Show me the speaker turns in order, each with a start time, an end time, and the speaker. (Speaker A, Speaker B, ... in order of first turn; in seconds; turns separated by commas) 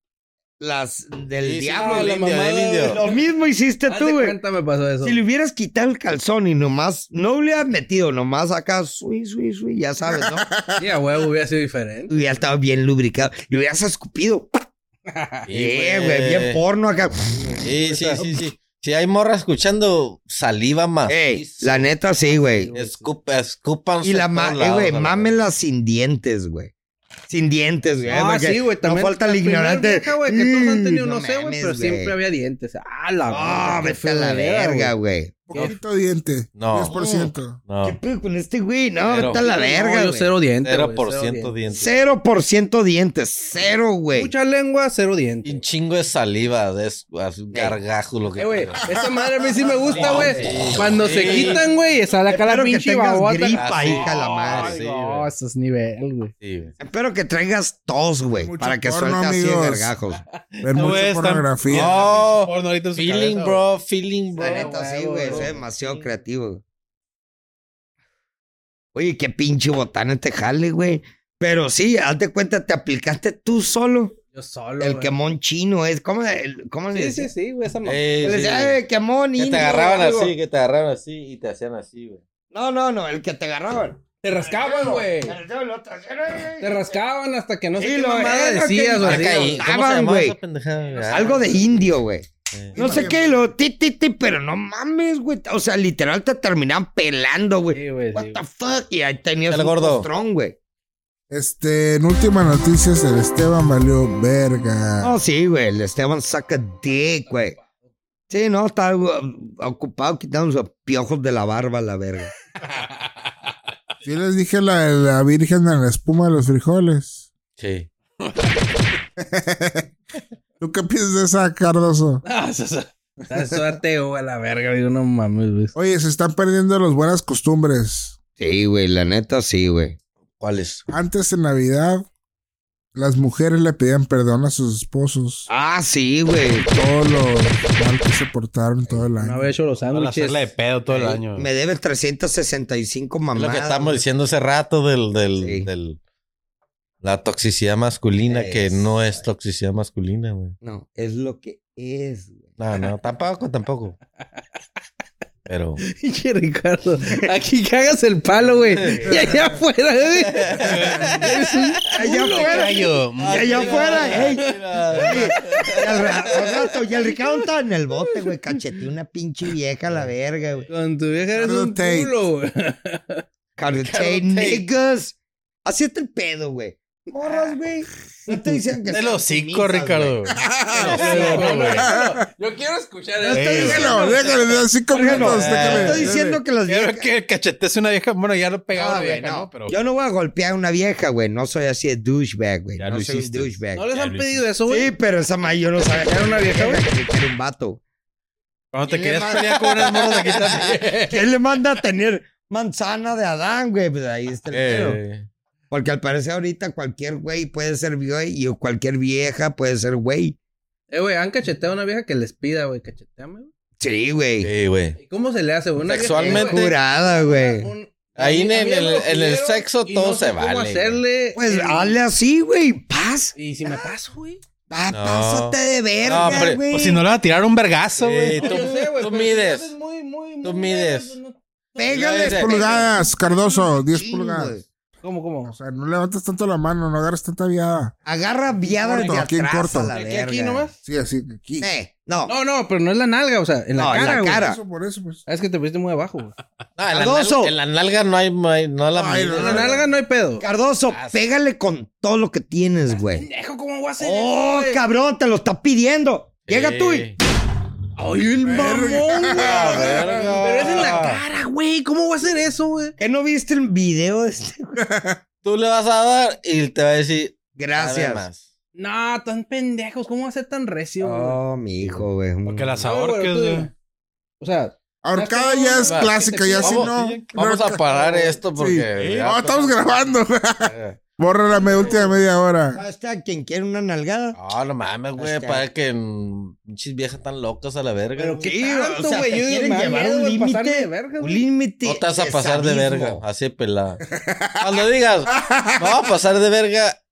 Speaker A: 0.6-2.1, Speaker B: 1.4-3.0, Speaker C: 1.7-3.2, Speaker A: 2.8-4.4, Speaker C: 3.9-5.2, Speaker A: 5.0-10.5, Speaker D: 10.1-10.8, Speaker C: 10.8-12.1, Speaker A: 12.1-14.6, Speaker C: 15.1-15.5, Speaker B: 15.5-16.6, Speaker A: 15.5-17.6, Speaker B: 17.6-21.8, Speaker C: 17.7-18.4, Speaker A: 21.1-22.7, Speaker C: 22.2-23.1, Speaker B: 22.7-25.4, Speaker A: 24.0-26.7, Speaker A: 27.3-32.1, Speaker C: 28.0-34.9, Speaker A: 33.3-35.7, Speaker D: 35.5-37.6, Speaker B: 36.5-37.0, Speaker A: 36.9-37.3, Speaker B: 37.6-38.0, Speaker A: 37.8-40.3, Speaker B: 39.0-39.5, Speaker C: 39.2-41.6, Speaker B: 40.6-41.9, Speaker A: 41.7-44.3, Speaker C: 44.1-45.6, Speaker B: 45.4-48.8, Speaker C: 48.4-56.3, Speaker D: 48.9-49.2, Speaker B: 49.9-51.6, Speaker A: 49.9-51.6, Speaker A: 52.3-54.8, Speaker B: 53.5-55.3, Speaker B: 56.4-56.7, Speaker A: 56.8-60.2, Speaker D: 58.3-59.9, Speaker D: 60.6-61.9, Speaker E: 60.7-63.6, Speaker B: 61.7-64.7, Speaker A: 64.4-66.6, Speaker C: 64.4-66.2, Speaker A: 68.9-74.2, Speaker C: 74.3-75.1, Speaker A: 74.8-77.3, Speaker C: 76.9-78.2, Speaker B: 77.8-78.8, Speaker A: 78.2-80.3, Speaker B: 79.3-82.2, Speaker A: 82.5-86.9, Speaker C: 84.2-85.4, Speaker C: 86.5-89.7, Speaker A: 87.8-90.4, Speaker B: 89.0-91.7, Speaker C: 90.9-91.8, Speaker A: 91.1-100.5, Speaker B: 92.5-93.0, Speaker D: 92.8-93.1, Speaker C: 92.8-93.3, Speaker C: 97.7-98.4, Speaker B: 99.5-100.1, Speaker D: 101.3-105.1, Speaker A: 105.0-107.6, Speaker A: 108.3-112.3, Speaker D: 114.0-117.3, Speaker B: 117.6-117.9, Speaker D: 119.2-119.9, Speaker D: 120.6-122.2, Speaker C: 122.2-125.7, Speaker D: 125.7-128.2, Speaker A: 128.4-130.0, Speaker B: 130.4-130.8, Speaker D: 130.9-132.1, Speaker D: 132.9-135.5, Speaker A: 135.5-136.7, Speaker D: 136.7-139.5, Speaker C: 139.2-140.5, Speaker E: 139.9-141.5, Speaker A: 141.3-144.0, Speaker B: 143.3-146.0, Speaker A: 145.4-145.7, Speaker B: 147.0-150.5, Speaker A: 148.3-149.2, Speaker A: 150.6-152.5, Speaker B: 152.6-154.0, Speaker B: 155.5-155.8, Speaker C: 155.8-167.5, Speaker B: 158.8-159.1, Speaker A: 158.9-159.2, Speaker B: 160.1-161.3, Speaker A: 161.9-170.7, Speaker E: 162.2-164.1, Speaker B: 163.2-166.4, Speaker C: 168.0-168.3, Speaker C: 170.7-173.2, Speaker D: 171.3-172.1, Speaker A: 173.6-180.2, Speaker B: 173.8-174.7, Speaker C: 177.2-177.6, Speaker C: 178.3-178.6, Speaker B: 178.9-180.3, Speaker E: 179.0-180.0, Speaker D: 180.3-181.0, Speaker C: 180.7-185.6, Speaker A: 180.8-181.9, Speaker B: 180.9-181.5, Speaker E: 181.3-181.6, Speaker D: 181.7-182.2, Speaker A: 183.2-184.3, Speaker D: 183.3-186.3, Speaker E: 183.4-183.8, Speaker A: 184.9-187.1, Speaker E: 185.3-189.7, Speaker B: 185.4-186.1, Speaker A: 188.7-193.9, Speaker E: 192.8-194.4, Speaker C: 193.7-194.9, Speaker A: 194.7-197.8, Speaker C: 195.9-196.9, Speaker E: 198.7-200.8, Speaker A: 198.8-200.3, Speaker C: 200.5-201.3, Speaker A: 201.0-205.0, Speaker B: 204.5-205.3, Speaker A: 205.7-210.4, Speaker C: 210.9-213.5, Speaker A: 213.8-214.5, Speaker B: 214.4-215.0, Speaker C: 215.0-222.0, Speaker B: 215.8-216.6, Speaker A: 216.2-217.7, Speaker B: 218.2-221.0, Speaker A: 221.3-223.9, Speaker C: 223.3-224.4, Speaker A: 224.7-227.0, Speaker B: 224.9-226.6, Speaker E: 226.6-228.5, Speaker B: 228.0-229.7, Speaker C: 228.3-233.6, Speaker B: 230.4-231.2, Speaker A: 231.8-233.1, Speaker B: 231.8-232.7, Speaker D: 232.2-234.6, Speaker A: 233.6-234.6, Speaker C: 235.0-235.5, Speaker D: 235.5-237.9, Speaker A: 238.0-240.7, Speaker C: 238.6-239.2, Speaker D: 238.9-239.9, Speaker C: 239.8-240.8, Speaker D: 240.8-241.7, Speaker A: 241.6-242.3, Speaker C: 242.2-244.4, Speaker A: 243.8-244.6, Speaker D: 244.0-245.2, Speaker C: 245.3-246.3, Speaker B: 246.8-249.8, Speaker A: 246.9-247.5, Speaker D: 248.9-249.7, Speaker C: 249.3-250.4, Speaker A: 250.4-253.3, Speaker B: 250.9-251.2, Speaker C: 253.0-254.8, Speaker A: 254.0-257.1, Speaker B: 256.4-257.1, Speaker C: 258.0-262.9, Speaker D: 258.4-260.4, Speaker B: 259.4-261.2, Speaker A: 263.0-264.7, Speaker D: 264.9-265.1, Speaker B: 265.4-268.4, Speaker A: 267.6-268.3, Speaker C: 268.7-271.4, Speaker A: 271.0-272.8, Speaker E: 272.4-273.7, Speaker C: 272.8-273.7, Speaker C: 274.4-276.9, Speaker D: 275.0-282.8, Speaker B: 275.9-279.8, Speaker B: 280.6-281.0, Speaker C: 281.5-282.2, Speaker A: 282.7-284.4, Speaker B: 284.3-288.5, Speaker A: 285.2-285.6, Speaker C: 288.1-291.4, Speaker A: 288.4-293.2, Speaker B: 291.8-294.0, Speaker D: 294.1-294.7, Speaker B: 294.6-296.9, Speaker D: 295.3-296.1